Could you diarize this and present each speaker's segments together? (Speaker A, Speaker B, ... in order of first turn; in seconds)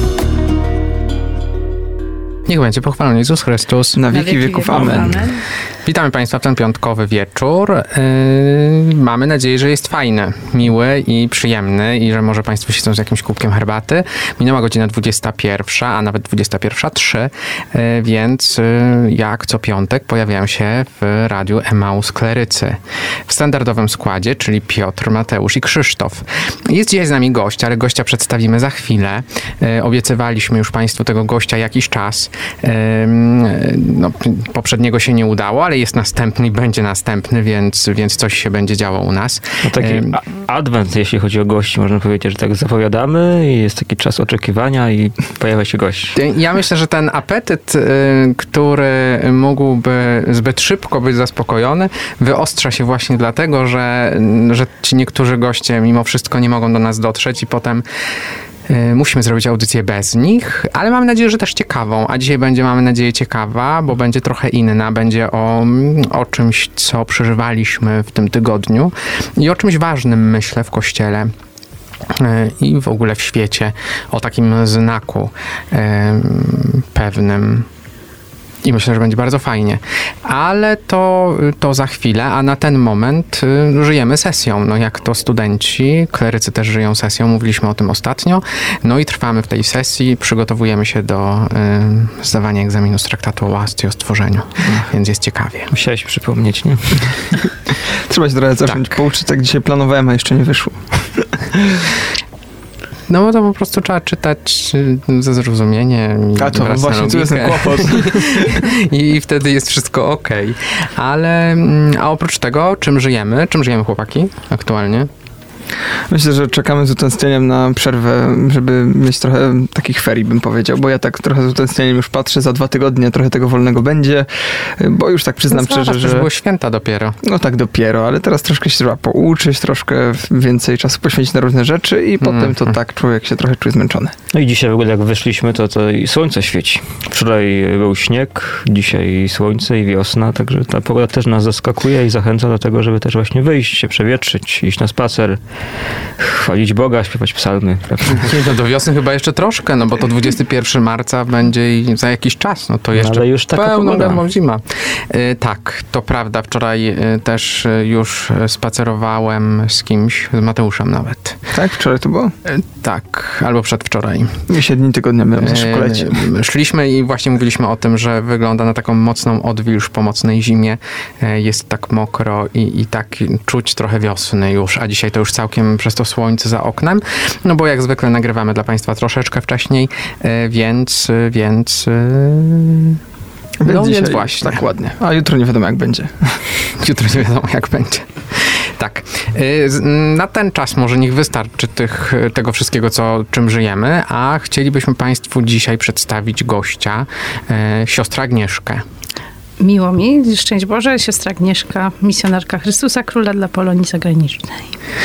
Speaker A: 2.5-5.1, 5.8-40.1, 46.1-57.8, 58.7-71.3, 72.1-77.7, 78.6-95.7, 98.7-99.0, 103.1-115.1, 125.5-127.2, 132.2-132.6, 148.1-161.4, 162.5-164.4, 165.4-183.0, 183.7-184.7, 186.8-198.8
Speaker B: 4.0-5.2, 98.1-101.8, 106.4-108.7, 116.1-126.3, 127.2-134.1, 161.5-162.3, 164.5-166.2, 183.6-186.5
Speaker C: 4.1-5.4, 199.6-204.6
Speaker D: 39.6-46.1, 95.7-97.2, 134.3-145.4, 146.2-148.3, 152.9-154.2